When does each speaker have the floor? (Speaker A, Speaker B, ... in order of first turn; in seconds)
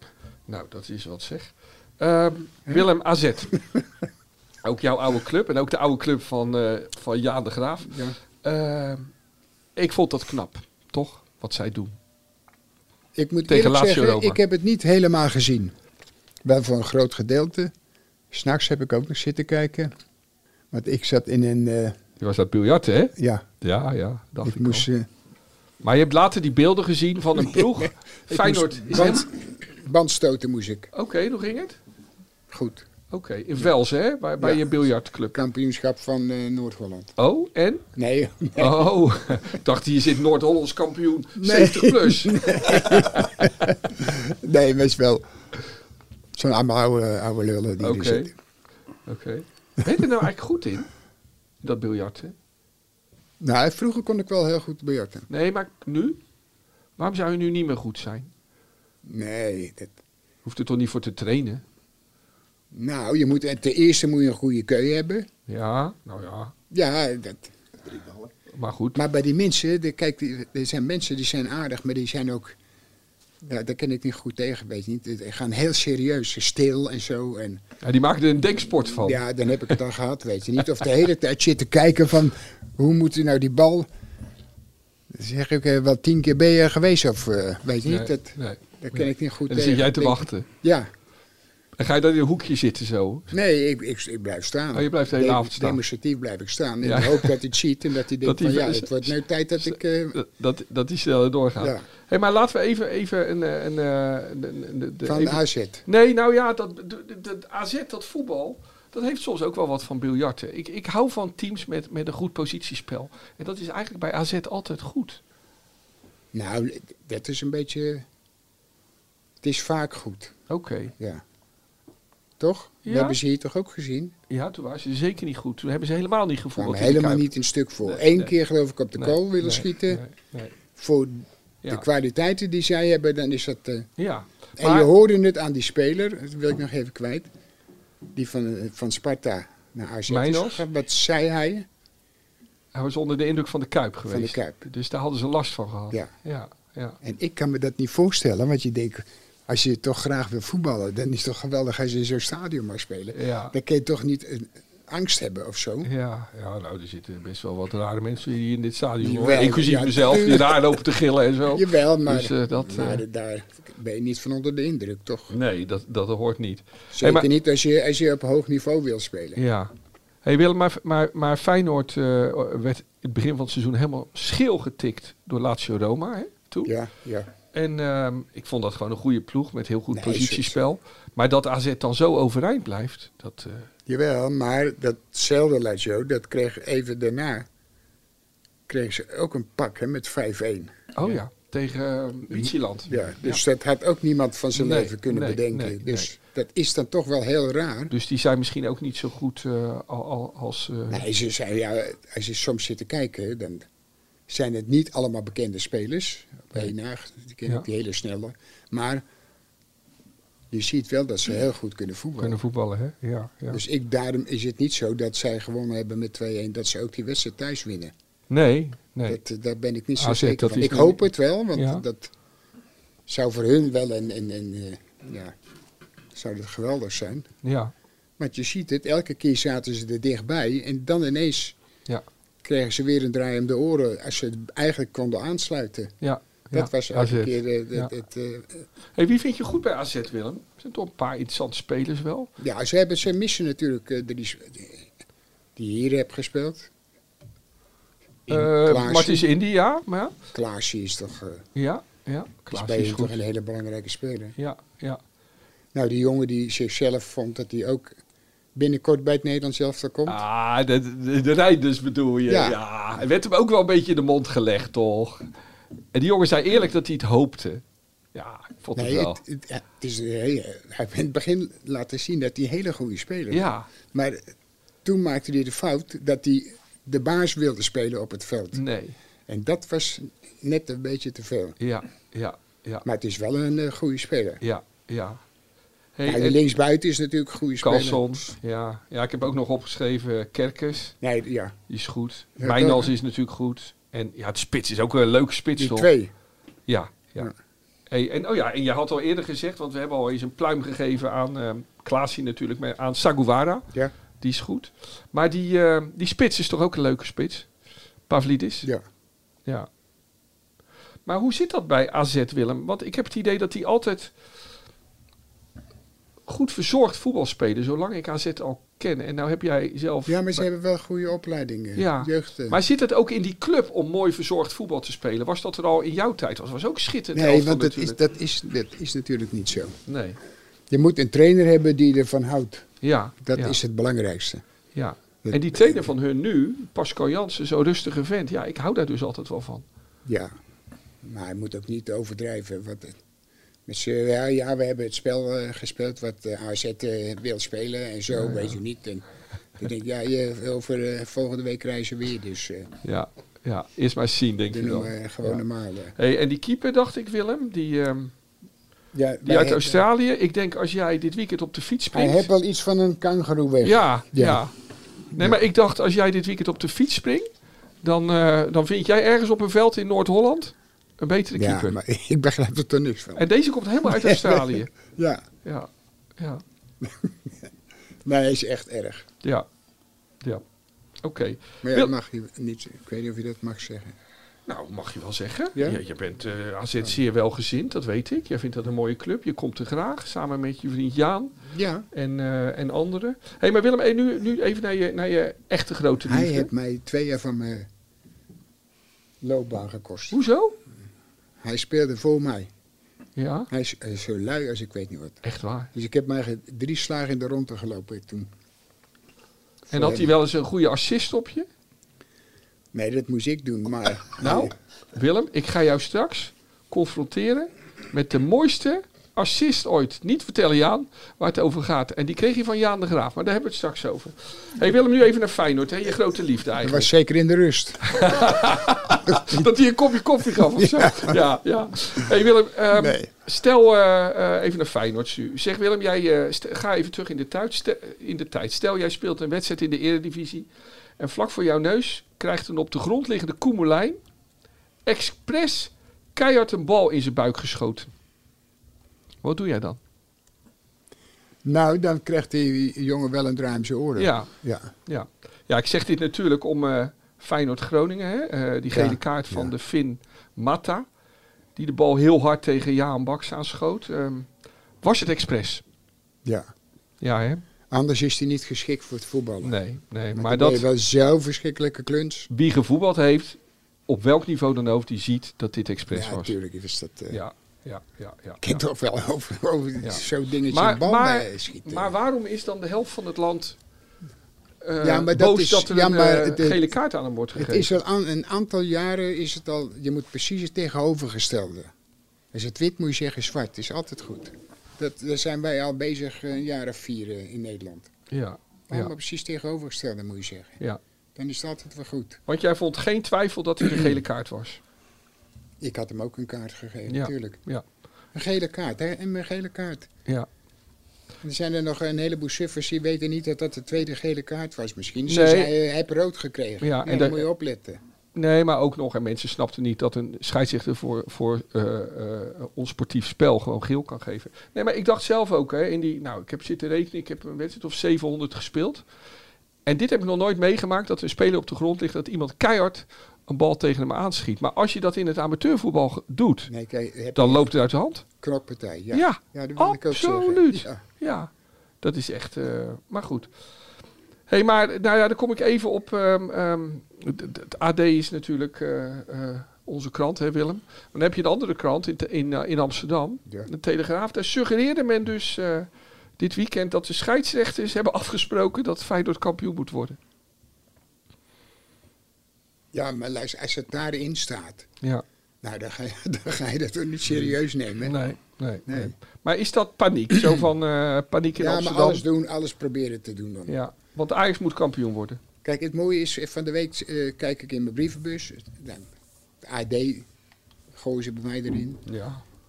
Speaker A: 0.5-3.5, 4.6-9.1, 9.8-11.9, 13.5-14.4, 22.2-24.9, 25.8-29.3, 30.9-31.8, 33.1-35.3, 37.2-37.8, 38.6-43.7, 47.8-48.3, 49.0-50.9, 51.6-52.3, 55.3-56.2, 57.0-58.3, 60.4-61.6, 65.5-66.5, 68.5-69.0, 77.8-79.2, 87.8-90.5, 91.8-93.3, 94.7-95.8, 96.8-97.3, 98.2-115.2, 120.5-120.9, 122.8-123.2, 124.3-127.3, 127.8-128.3, 129.0-130.5, 134.0-134.9, 140.1-140.6, 142.7-147.0, 153.1-153.5, 155.8-163.0, 165.3-167.3, 169.4-169.7, 170.2-176.7, 177.5-183.7, 190.9-193.4, 194.5-196.1, 197.9-201.0, 212.2-213.6, 218.3-219.2, 220.0-221.0, 221.5-221.8, 227.4-227.7, 236.0-237.9, 238.9-242.3, 248.3-250.1, 251.5-253.2, 254.4-255.0, 260.1-265.2, 265.9-267.6, 268.1-269.2, 273.3-273.7, 278.5-279.0, 281.6-282.8, 284.4-285.2, 285.9-286.4, 287.6-290.9, 291.7-295.9, 296.7-297.3, 297.9-303.6, 304.2-307.5, 308.1-308.7, 311.1-314.1, 316.2-320.4, 321.8-328.0, 329.9-330.2, 332.8-333.6, 334.7-339.6, 348.1-348.5, 352.8-355.4, 355.9-358.1, 359.2-362.3, 363.6-364.5, 365.1-367.3, 367.8-371.8, 373.1-374.7, 375.4-376.4, 381.0-381.9, 384.5-391.4, 391.9-396.5, 400.1-400.6, 403.1-403.5, 405.2-405.7, 409.7-411.5, 414.2-426.9, 427.8-440.5, 441.0-444.0, 444.9-447.9, 449.2-449.8, 454.0-454.3, 454.9-460.8, 461.6-464.3, 464.8-465.6, 467.0-467.4, 469.4-470.7, 472.3-476.3, 477.1-478.6, 479.8-483.6, 484.6-487.7, 498.1-498.9, 502.3-504.6, 506.9-507.6, 515.1-515.5, 516.6-517.2, 518.1-528.8, 529.6-536.5, 537.1-538.0, 538.9-541.3, 541.8-543.3, 544.3-560.0, 567.8-572.0, 573.5-575.2, 581.9-582.2
Speaker B: 7.8-8.2, 13.2-15.7, 16.4-17.7, 18.3-19.9, 20.7-22.0, 23.2-23.4, 24.4-25.1, 27.4-30.9, 32.5-32.9, 34.4-34.8, 35.3-37.1, 38.0-38.9, 41.4-45.2, 46.3-48.3, 53.4-55.3, 59.0-59.9, 62.7-65.3, 66.7-67.5, 68.9-72.6, 73.4-77.6, 79.0-83.9, 85.1-90.9, 93.3-100.2, 101.6-101.8, 105.0-105.8, 116.3-118.0, 119.4-120.4, 121.0-121.2, 122.4-124.1, 126.5-130.0, 130.7-133.9, 134.6-137.3, 138.1-141.7, 144.1-144.6, 147.0-155.9, 159.0-160.8, 161.5-165.3, 166.9-169.4, 176.6-177.3, 179.9-180.6, 183.9-187.5, 188.7-191.2, 192.4-197.9, 200.9-203.7, 204.3-209.0, 210.5-212.4, 213.5-217.9, 219.1-222.1, 223.1-225.3, 226.1-227.3, 228.2-231.6, 232.4-235.9, 236.5-238.7, 242.4-244.9, 245.6-246.7, 248.3-249.3, 250.3-251.4, 252.5-254.3, 255.7-258.0, 258.5-260.2, 262.3-262.6, 268.7-274.3, 274.8-278.6, 279.3-281.6, 282.8-284.4, 286.1-288.3, 291.0-291.6, 292.4-292.9, 295.6-296.1, 320.1-322.6, 327.1-329.8, 330.7-332.7, 333.2-334.4, 335.2-335.8, 340.1-340.3, 341.0-343.0, 343.7-349.1, 349.6-352.7, 354.5-355.9, 358.9-359.8, 361.9-364.4, 365.1-365.4, 371.3-373.2, 373.8-375.2, 376.8-377.5, 378.0-379.1, 381.6-384.0, 385.5-385.8, 391.4-391.9, 396.0-397.7, 399.2-400.2, 401.4-402.5, 403.5-405.2, 405.7-408.3, 409.7-410.1, 412.7-414.5, 426.6-428.1, 429.1-429.5, 430.4-431.2, 432.7-433.1, 451.4-454.7, 458.7-459.5, 466.2-466.5, 467.7-469.6, 470.1-472.3, 475.9-477.2, 478.4-481.9, 484.8-486.6, 487.3-491.7, 492.3-497.9, 498.7-500.6, 501.1-502.2, 505.6-507.4, 508.1-509.9, 511.2-517.8, 536.5-537.5, 538.2-540.8, 562.7-564.7, 565.4-568.0, 568.7-568.9, 571.4-573.5, 575.4-578.9, 579.4-580.1, 580.7-581.8